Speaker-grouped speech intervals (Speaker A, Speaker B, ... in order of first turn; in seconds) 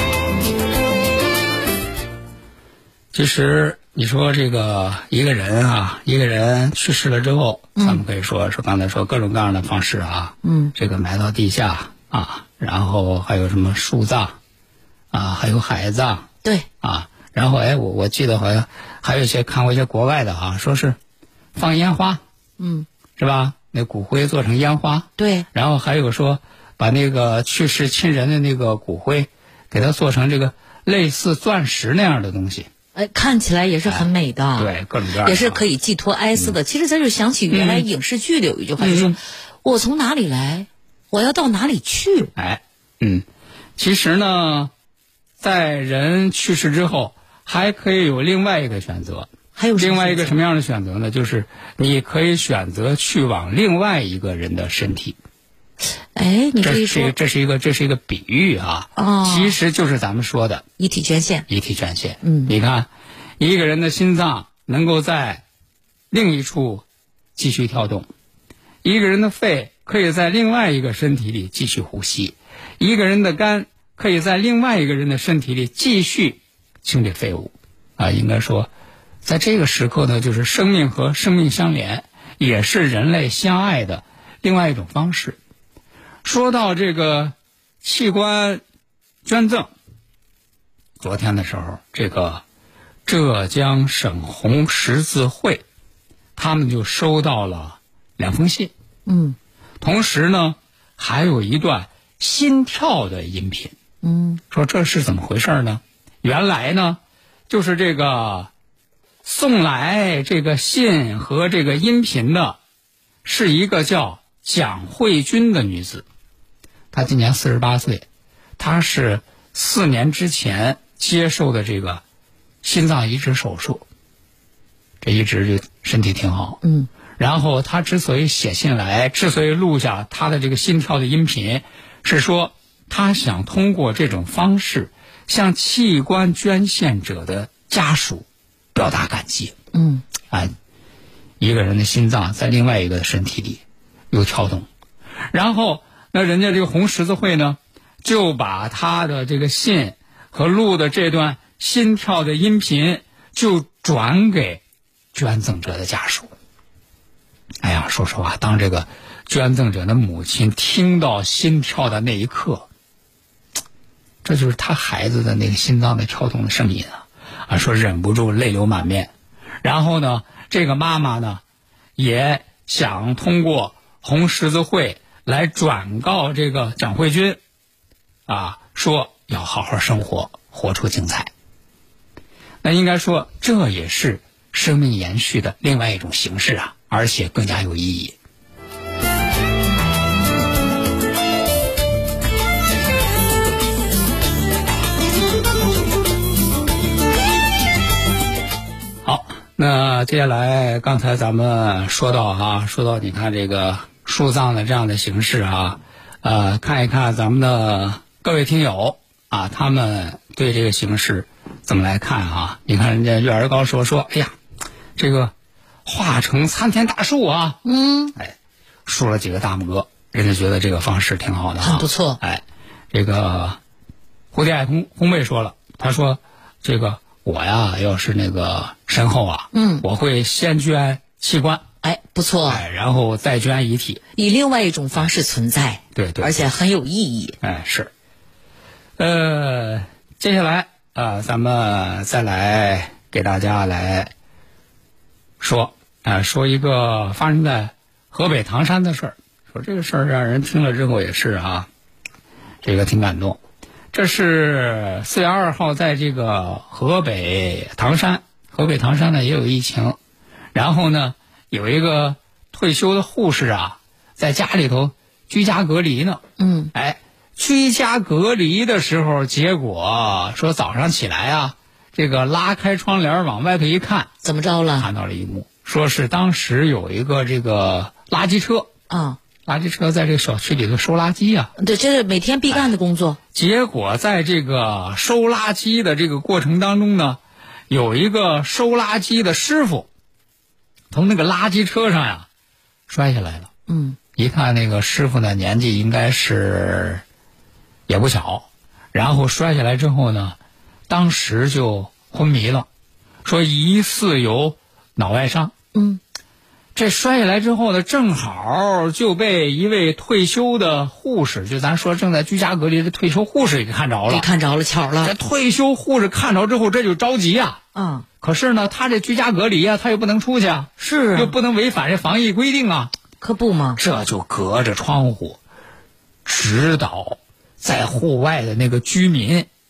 Speaker A: 3.1-14.3, 15.1-16.3, 16.8-21.0, 21.5-22.2, 23.2-32.7, 33.9-35.6, 37.5-37.9, 38.8-39.2, 42.4-43.2, 43.8-44.7, 45.4-55.2, 56.6-60.6, 61.5-65.4, 66.1-66.8, 67.3-68.1, 68.8-78.7, 79.2-85.4, 86.2-88.6, 89.2-89.7, 91.0-92.4, 93.0-95.6, 96.3-98.7, 99.8-103.7, 104.5-108.5, 109.2-112.6, 113.2-116.0, 116.9-118.0, 118.6-122.0, 122.6-123.8, 125.0-126.6, 127.2-139.5, 141.4-144.7, 145.3-154.6, 155.1-156.3, 157.6-162.7, 164.2-169.1, 169.6-171.4, 172.0-177.4, 178.3-181.3, 182.6-188.2, 199.0-214.3, 215.0-215.3, 215.8-217.6, 218.8-223.6, 224.3-231.6, 232.5-234.0, 235.9-236.3, 237.4-237.9, 239.0-244.1, 245.4-251.7, 252.6-253.4, 253.9-260.0, 260.5-266.2, 266.7-274.1, 274.8-278.7, 279.4-281.5, 283.3-289.9, 290.9-292.3, 292.9-293.5, 294.1-297.0, 297.9-300.4, 300.9-302.7, 303.2-305.5, 306.7-314.3, 315.0-317.6, 318.2-322.9, 323.8-325.4, 326.2-329.5
Speaker B: 7.8-8.0, 10.4-10.7, 22.6-22.9, 25.2-25.5, 32.9-34.7, 35.2-42.3, 49.5-50.4, 56.1-57.1, 59.0-59.6, 60.8-61.5, 62.2-62.5, 99.0-99.4, 104.0-104.4, 126.6-126.9, 139.7-140.0, 217.6-218.2, 221.6-222.2, 229.5-229.8, 231.8-232.6, 234.1-237.4, 266.4-266.7, 274.2-274.9, 278.9-279.2, 281.6-283.2, 293.7-294.0, 305.7-306.0, 314.1-315.1, 317.7-318.1, 320.8-321.3, 323.2-323.8